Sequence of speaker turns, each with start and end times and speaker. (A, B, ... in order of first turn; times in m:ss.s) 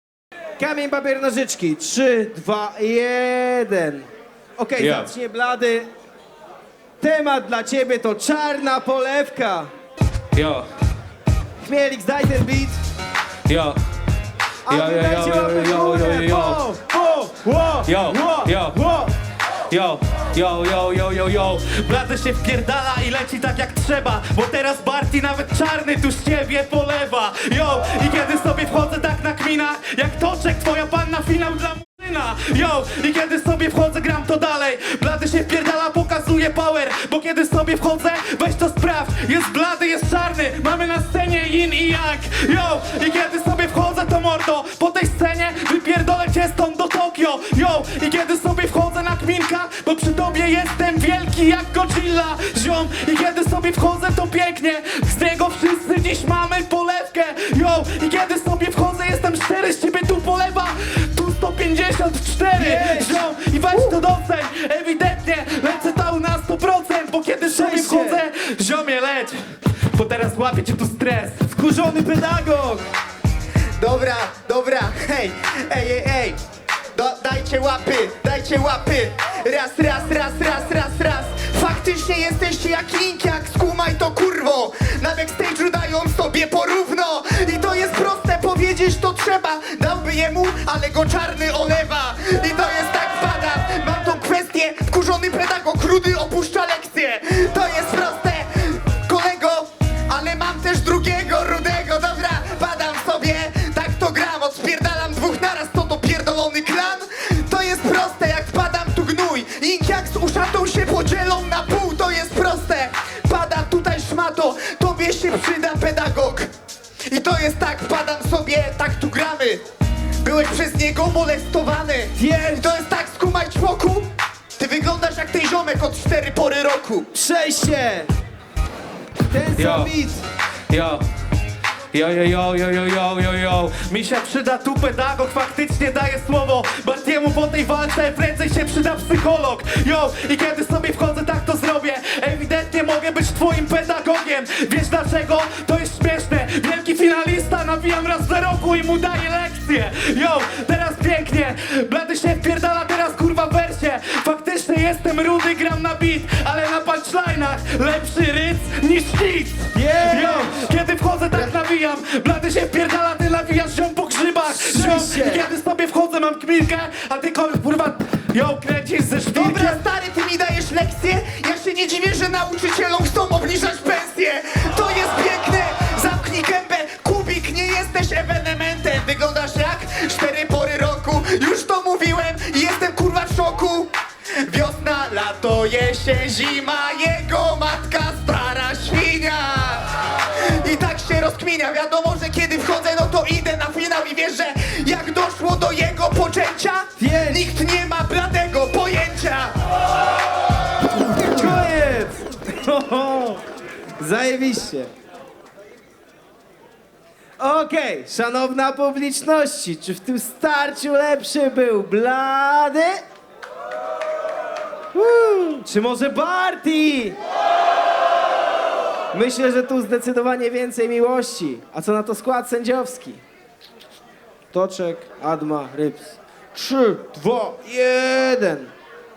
0:00.6-0:05.9 A
0:04.8-0:05.1 B
0:07.0-0:09.7 A
0:10.3-0:10.7 B
0:11.6-0:12.8 A
0:13.5-0:13.8 B
0:14.6-0:19.1 A
0:14.7-0:16.6 B
0:17.8-0:18.8 B
0:19.7-1:11.5 B
1:02.5-1:04.0 A
1:07.5-1:08.2 A
1:11.5-1:12.8 A
1:13.8-1:16.4 C
1:16.9-1:56.5 C
1:57.1-1:59.6 C
2:00.2-2:07.1 C
2:02.2-2:02.7 A
2:07.1-2:08.1 A
2:09.3-2:10.2 A
2:09.6-2:09.9 B
2:10.7-2:11.0 B
2:11.9-2:49.8 B
2:39.7-2:40.6 A
2:44.5-2:45.5 A
2:49.3-3:03.9 C
3:04.4-3:09.8 C
3:10.6-3:19.5 C
3:17.0-3:17.5 A
3:21.2-3:23.4 A
3:24.0-3:24.9 A
3:27.4-3:33.0 A
3:34.9-3:37.2 A
3:39.1-3:43.2 A
3:44.5-3:48.7 A